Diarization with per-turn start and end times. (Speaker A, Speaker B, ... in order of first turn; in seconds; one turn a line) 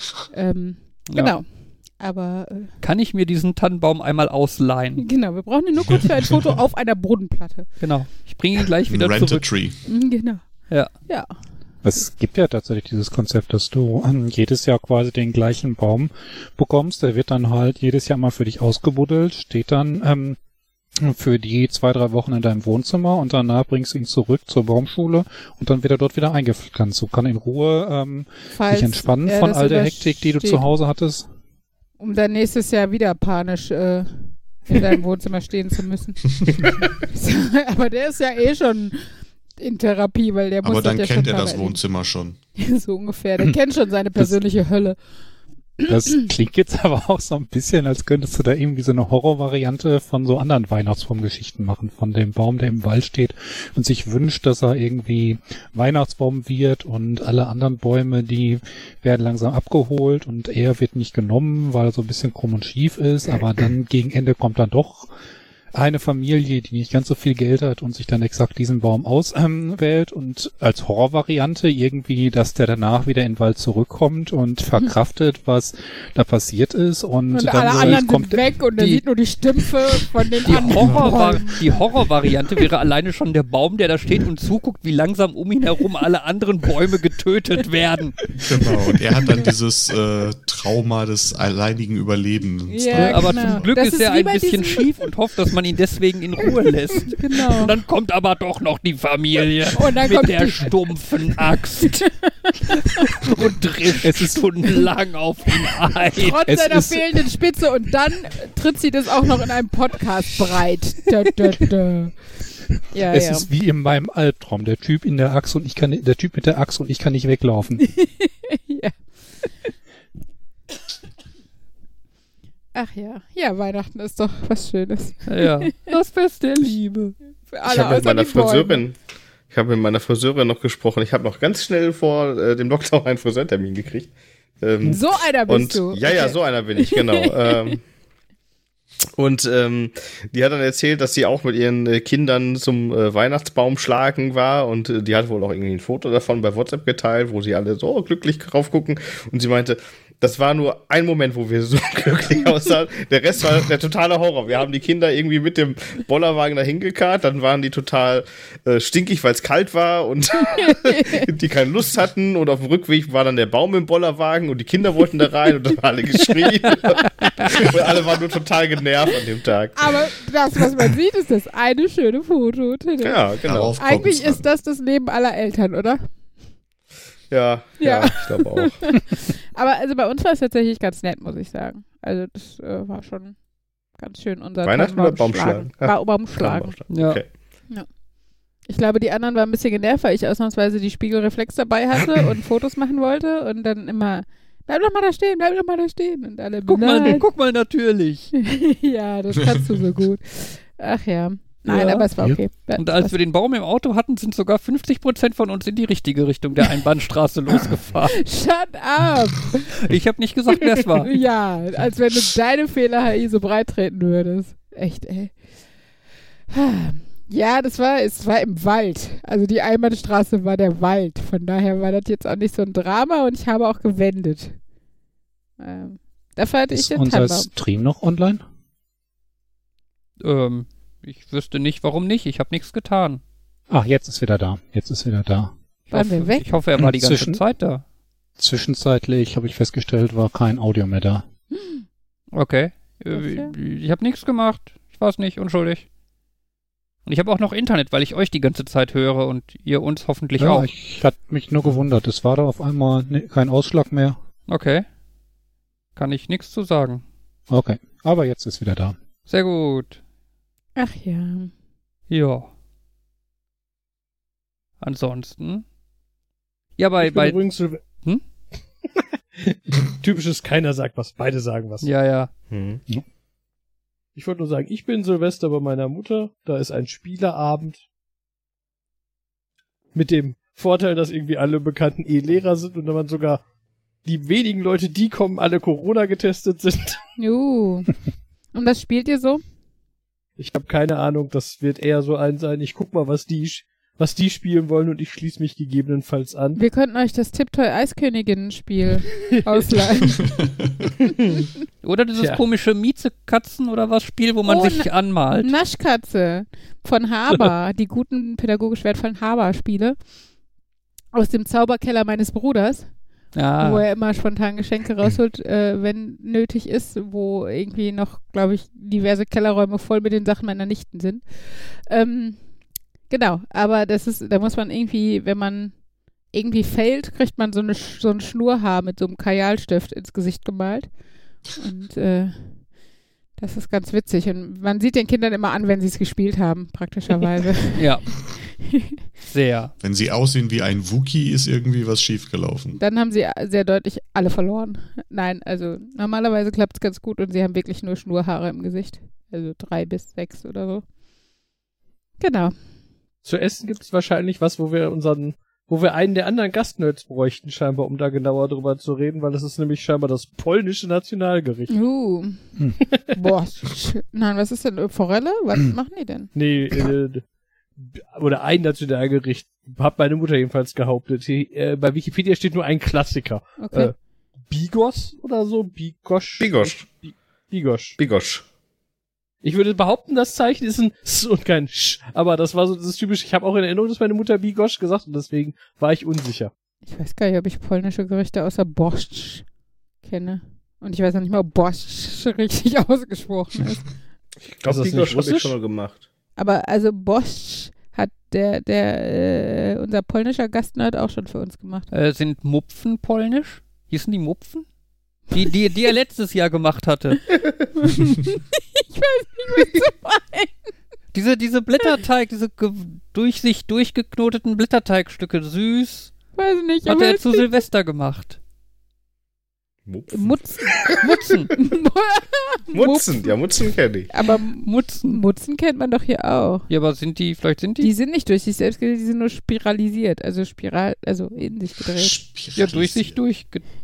Speaker A: 0.3-2.7
Speaker B: 1.1-1.4
Speaker B: 2.8-5.1
Speaker A: 5.0-7.7
Speaker B: 7.8-9.5
Speaker C: 8.9-9.8
Speaker A: 9.9-11.4
Speaker D: 11.8-20.4
Speaker D: 21.0-31.3
Speaker A: 28.5-30.7
Speaker A: 32.0-36.3
Speaker A: 37.1-41.8
Speaker C: 40.6-42.4
Speaker A: 42.6-45.0
Speaker D: 45.9-65.1
Speaker D: 65.7-79.0
Speaker A: 77.3-81.7
Speaker B: 80.4-88.2
Speaker C: 80.8-81.1
Speaker C: 88.3-93.7
Speaker A: 92.7-95.1
Speaker B: 93.0-102.1
Speaker A: 97.1-97.8
Speaker A: 99.8-101.1
Speaker A: 101.8-103.3
Speaker B: 103.0-106.4
Speaker D: 104.0-104.4
Speaker A: 106.2-112.4
Speaker D: 106.4-107.3
Speaker A: 112.9-113.5
Speaker D: 113.1-117.9
Speaker A: 118.0-118.9
Speaker A: 122.7-125.9
Speaker B: 125.3-127.2
Speaker A: 127.5-128.8
Speaker E: 127.7-129.0
Speaker E: 129.5-137.8
Speaker A: 134.9-137.0
Speaker E: 139.2-170.1
Speaker A: 160.5-161.3
Speaker A: 167.2-167.5
Speaker A: 169.8-173.2
Speaker E: 173.0-173.7
Speaker C: 173.5-174.5
Speaker A: 173.8-176.1
Speaker E: 177.3-178.9
Speaker A: 177.8-183.4
Speaker A: 183.9-186.7
Speaker E: 184.6-187.3
Speaker B: 186.9-187.2
Speaker A: 188.7-197.2
Speaker B: 196.7-198.3
Speaker A: 198.4-203.2
Speaker B: 201.7-202.1
Speaker B: 202.8-208.2
Speaker A: 208.2-209.8
Speaker B: 209.8-211.2
Speaker A: 211.1-215.4
Speaker A: 216.5-224.6
Speaker A: 225.6-227.5
Speaker D: 226.7-228.4
Speaker B: 230.2-233.2
Speaker D: 233.7-235.5
Speaker B: 235.9-237.8
Speaker A: 235.9-236.5
Speaker D: 236.8-237.4
Speaker D: 238.4-241.2
Speaker A: 241.6-241.8
Speaker B: 242.3-245.8
Speaker A: 243.1-243.5
Speaker B: 247.1-250.7
Speaker D: 250.4-254.2
Speaker B: 254.5-254.8
Speaker B: 256.0-257.0
Speaker D: 257.5-259.0
Speaker B: 259.3-260.0
Speaker A: 260.8-261.5
Speaker B: 262.1-262.5
Speaker B: 264.8-265.6
Speaker B: 266.8-268.2
Speaker F: 267.0-267.9
Speaker F: 269.4-271.9
Speaker B: 271.8-272.3
Speaker E: 272.5-272.8
Speaker F: 274.2-277.8
Speaker F: 279.9-283.4
Speaker F: 284.1-287.0
Speaker A: 287.2-287.9
Speaker A: 288.5-289.4
Speaker F: 290.4-296.6
Speaker A: 296.6-300.3
Speaker B: 301.8-305.5
Speaker F: 302.2-302.4
Speaker A: 304.4-310.0
Speaker A: 311.1-312.9
Speaker B: 313.3-313.9
Speaker A: 313.6-322.4
Speaker A: 323.1-332.7
Speaker A: 333.4-338.9
Speaker B: 337.8-338.2
Speaker B: 339.3-339.7
Speaker C: 339.8-342.8
Speaker A: 342.8-350.9
Speaker A: 352.2-352.6
Speaker F: 353.2-361.8
Speaker A: 361.7-366.3
Speaker D: 362.6-362.8
Speaker F: 366.4-373.9
Speaker A: 373.6-373.9
Speaker F: 374.5-378.0
Speaker E: 376.4-376.9
Speaker E: 378.0-378.4
Speaker F: 379.4-386.5
Speaker A: 386.9-389.5
Speaker A: 390.0-393.9
Speaker E: 394.4-396.0
Speaker F: 394.7-395.6
Speaker A: 396.4-401.9
Speaker B: 401.9-404.6
Speaker B: 405.3-407.2
Speaker A: 407.8-410.7
Speaker B: 411.1-416.1
Speaker A: 416.4-417.4
Speaker B: 416.9-418.4
Speaker E: 419.9-421.0
Speaker A: 420.1-423.4
Speaker B: 421.0-421.5
Speaker E: 422.7-424.1
Speaker A: 424.1-426.7
Speaker B: 424.6-425.2
Speaker B: 426.7-427.9
Speaker A: 427.8-432.2
Speaker C: 431.8-433.2
Speaker B: 432.6-433.6